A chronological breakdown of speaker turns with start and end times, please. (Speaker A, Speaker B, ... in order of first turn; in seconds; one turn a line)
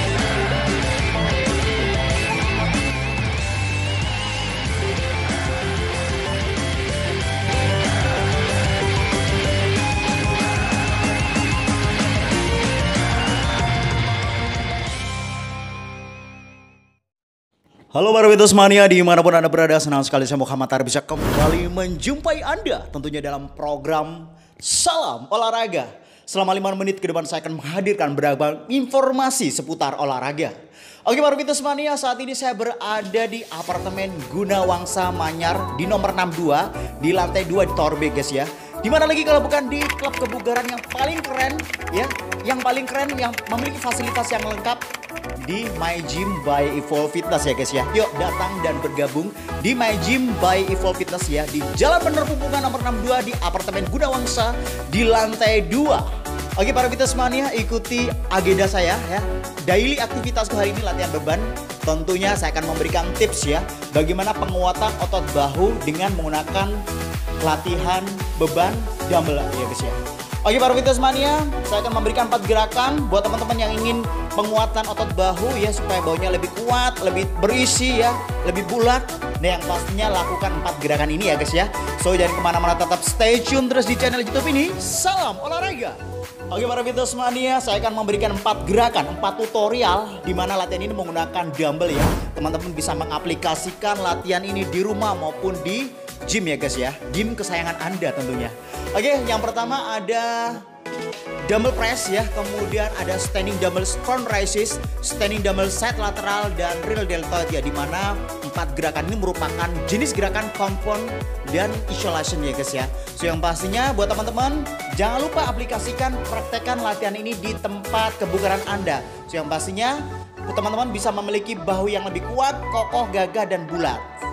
Speaker A: 17.9-44.8
Speaker A: 45.4-66.8
Speaker A: 67.4-100.7
Speaker A: 101.4-124.1